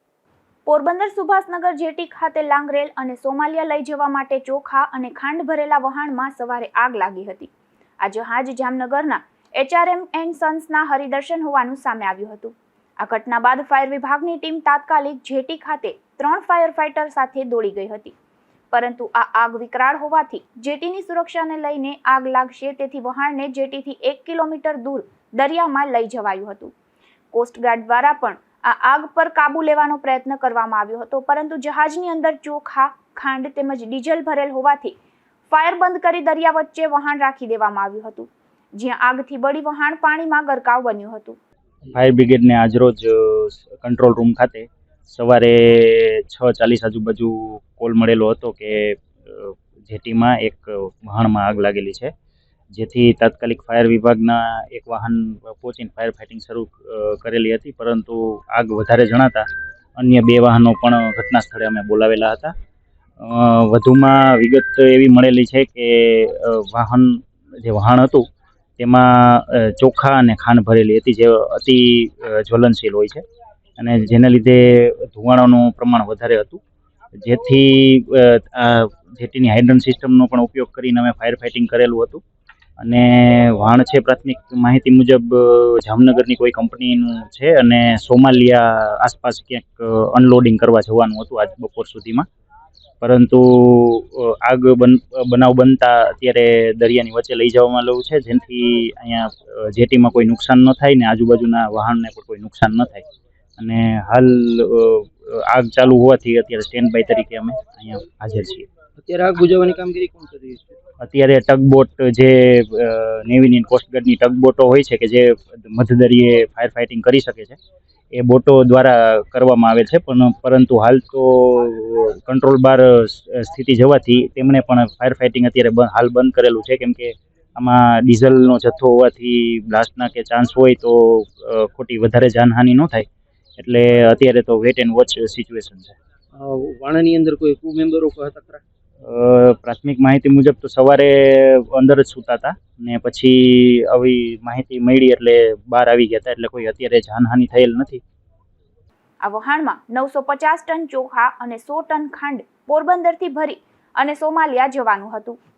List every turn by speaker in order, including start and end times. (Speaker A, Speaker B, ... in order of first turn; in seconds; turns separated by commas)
Speaker A: 0.7-18.1, Speaker A: 18.7-26.7, Speaker A: 27.3-35.0, Speaker A: 35.5-41.4, Speaker B: 41.9-52.1, Speaker B: 52.7-59.5, Speaker B: 60.0-62.5, Speaker B: 63.2-68.2, Speaker B: 68.8-73.2, Speaker B: 73.8-76.6, Speaker B: 77.2-82.2, Speaker B: 82.8-92.2, Speaker B: 93.0-103.0, Speaker B: 103.6-108.7, Speaker C: 109.0-110.8, Speaker B: 111.0-117.6, Speaker B: 118.1-133.1, Speaker B: 133.6-135.9, Speaker C: 136.3-138.6, Speaker B: 139.0-148.0, Speaker A: 149.2-155.4